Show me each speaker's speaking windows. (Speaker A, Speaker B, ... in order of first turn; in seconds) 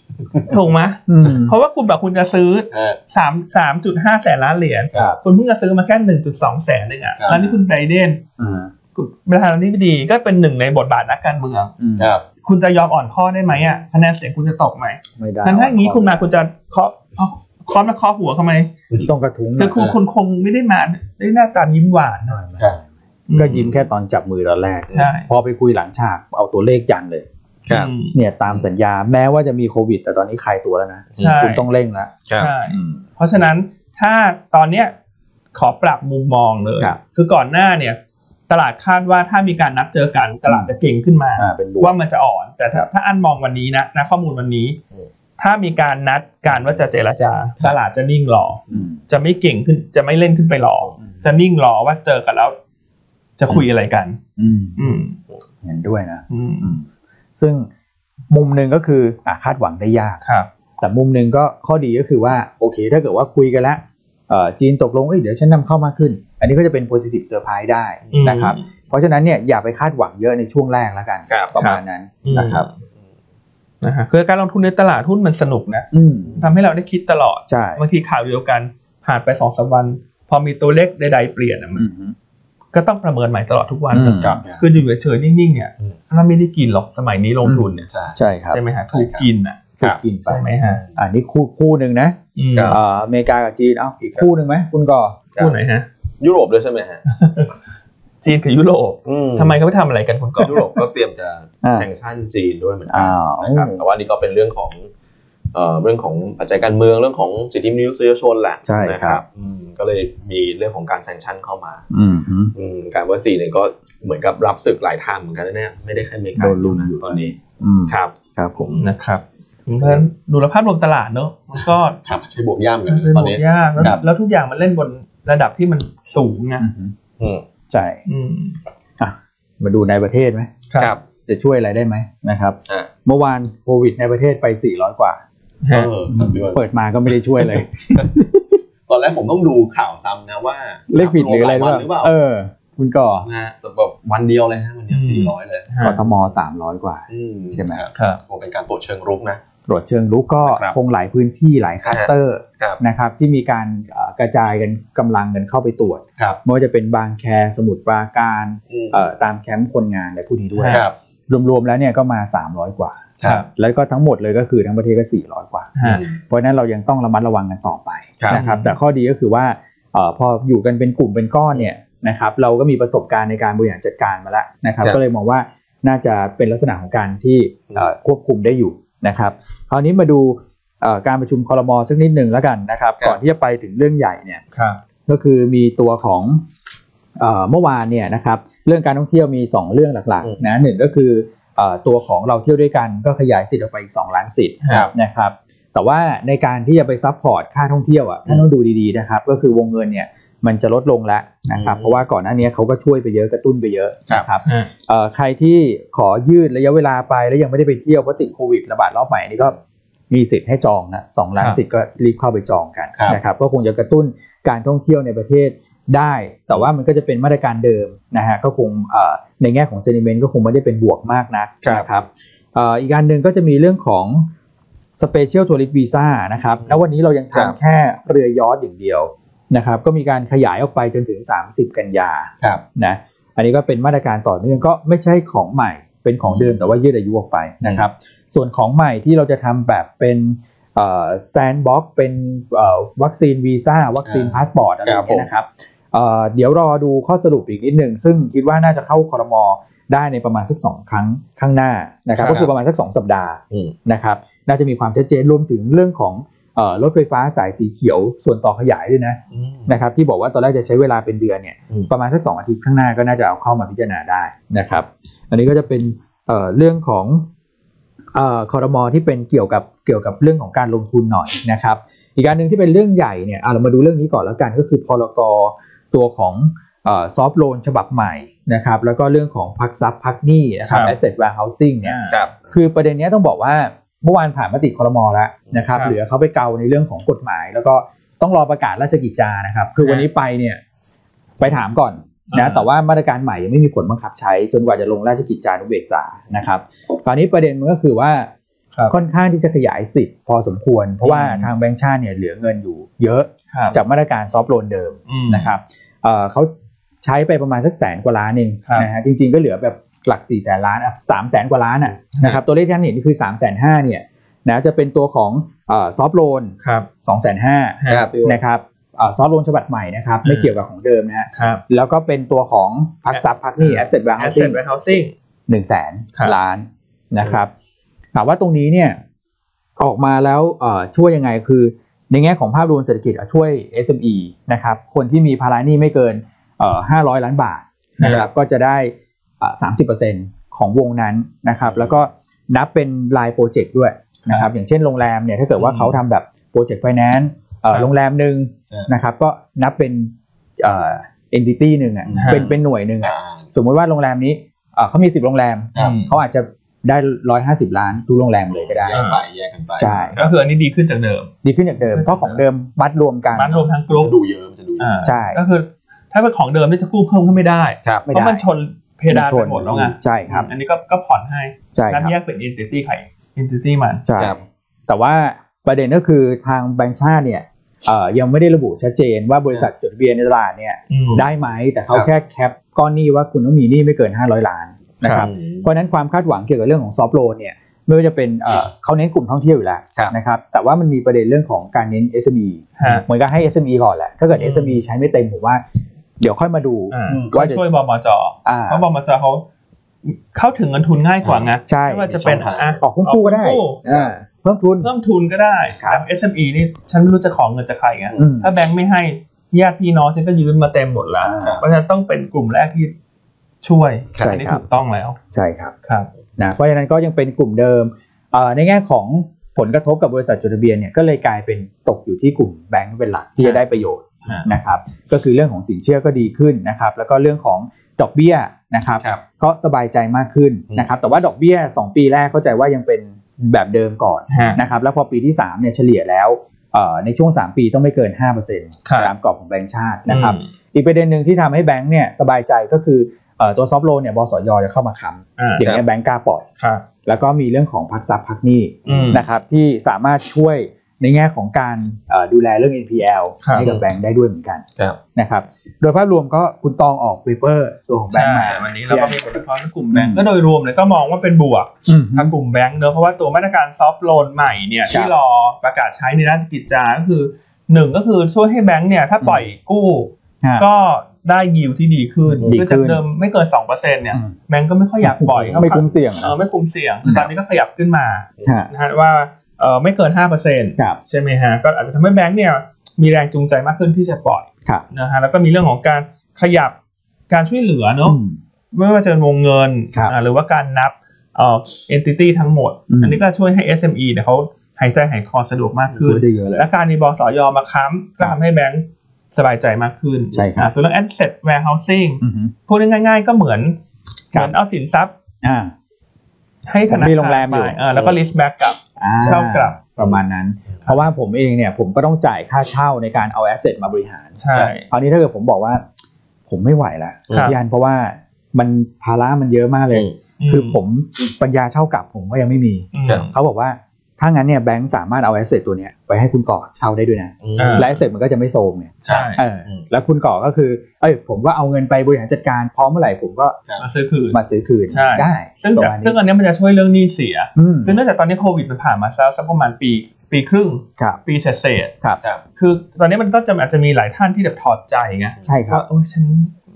Speaker A: 0.5-8.2, 8.9-11.7, 12.4-18.7, 19.6-22.4, 23.3-23.7, 24.9-25.3, 27.7-28.1, 31.2-31.6, 32.3-34.9, 35.5-38.0, 38.5-44.8, 45.4-52.5, 53.4-54.2, 54.8-55.2, 56.3-56.7, 60.2-60.5, 68.1-68.6, 71.6-72.7, 73.8-75.9, 76.4-81.8, 82.7-87.9, 88.5-89.7, 90.2-90.8, 92.3-92.8, 95.4-95.9, 97.1-97.5, 98.2-100.8, 118.7-122.0, 122.9-126.7, 128.1-128.6, 135.6-135.9, 144.9-146.0, 147.9-148.2, 160.6-160.8, 163.2-163.5, 165.8-166.0, 168.3-168.8, 194.6-194.9, 204.4-204.7, 280.7-280.9, 281.8-282.2, 289.8-290.1, 292.3-292.6, 301.0-301.5, 303.5-303.8, 305.1-305.5, 312.1-312.4, 316.6-316.9, 317.8-318.1, 320.2-320.5, 321.3-321.6, 323.1-325.1, 338.0-338.2, 345.6-346.0, 352.2-352.5, 355.8-356.1, 358.9-359.2, 360.1-361.3, 361.9-362.4, 363.4-364.1, 364.8-374.0, 380.9-381.3, 392.8-393.0, 394.3-394.8, 396.9-399.4, 400.0-403.8, 404.8-412.9, 413.6-415.2, 434.3-434.6, 438.9-439.1, 440.1-440.4, 445.4-445.6, 446.6-446.8, 448.9-449.2, 453.4-453.7, 458.1-486.7, 487.3-488.2, 488.7-503.8, 504.3-505.1, 506.7-509.8, 514.4-514.9, 520.4-520.8, 522.9-523.3, 527.6-527.9, 529.0-529.4, 533.8-541.9, 542.6-546.5
Speaker B: 1.1-1.5, 4.9-5.2, 8.4-8.7, 11.8-12.1, 15.2-16.3, 19.0-19.8, 22.3-22.8, 23.3-27.2, 28.1-32.1, 32.7-33.0, 40.5-40.7, 41.4-41.9, 48.7-49.0, 54.4-54.9, 55.6-57.7, 58.3-60.2, 60.8-72.7, 75.9-76.5, 77.5-77.8, 81.8-82.1, 83.9-84.4, 87.4-88.6, 89.8-95.2, 102.9-103.8, 108.6-109.2, 111.9-112.5, 116.3-118.7, 123.8-124.0, 126.6-126.9, 127.7-128.0, 129.0-130.5, 131.3-135.2, 136.1-138.6, 140.9-143.3, 145.8-147.8, 149.7-184.4, 185.1-186.4, 187.2-209.6, 210.1-224.3, 225.0-267.2, 268.1-282.0, 282.5-290.6, 291.4-298.3, 298.9-306.5, 307.0-327.5, 328.1-329.0, 329.8-359.0, 359.8-360.2, 361.4-363.6, 365.0-365.4, 368.1-368.4, 369.1-370.5, 371.7-372.1, 374.1-395.6, 396.2-397.6, 398.4-398.8, 401.7-404.9, 405.8-406.0, 408.2-408.5, 411.2-411.6, 414.2-414.6, 415.3-415.7, 416.4-446.4, 447.0-454.6, 455.1-459.2, 459.9-460.2, 461.9-462.3, 472.3-473.0, 475.0-476.3, 478.4-478.7, 488.0-488.4, 492.9-493.2, 496.0-496.7, 500.3-500.7, 502.2-502.5, 505.4-505.7, 506.9-507.8, 509.0-515.8, 516.5-533.6, 534.3-536.2, 537.5-538.0, 545.4-545.8
Speaker C: 2.7-3.0, 7.2-7.5, 12.0-12.2, 27.7-27.9, 32.3-32.5, 84.0-84.7, 87.8-88.2, 88.9-89.3, 90.6-91.0, 92.5-92.8, 94.0-94.3, 96.2-97.0, 99.0-99.6, 100.4-104.9, 105.5-111.8, 112.5-117.2, 117.9-118.7, 122.0-124.0, 127.2-127.4, 135.7-138.1, 138.9-142.1, 143.2-146.2, 147.1-149.4, 150.4-150.7, 151.8-152.8, 158.7-159.0, 160.7-160.9, 165.8-166.2, 184.5-184.8, 201.5-202.0, 212.9-213.2, 236.2-236.7, 237.6-237.9, 244.0-245.3, 252.2-252.5, 259.3-259.7, 282.1-282.4, 317.9-318.4, 338.0-338.3, 341.6-342.1, 352.1-353.5, 355.7-356.0, 358.5-360.3, 363.9-365.1, 385.0-385.7, 397.1-397.4, 401.2-401.5, 402.2-402.8, 403.9-404.1, 411.4-411.6, 448.9-449.2, 453.6-453.9, 458.4-458.7, 475.4-475.6, 507.9-508.2, 527.4-528.0, 529.0-529.8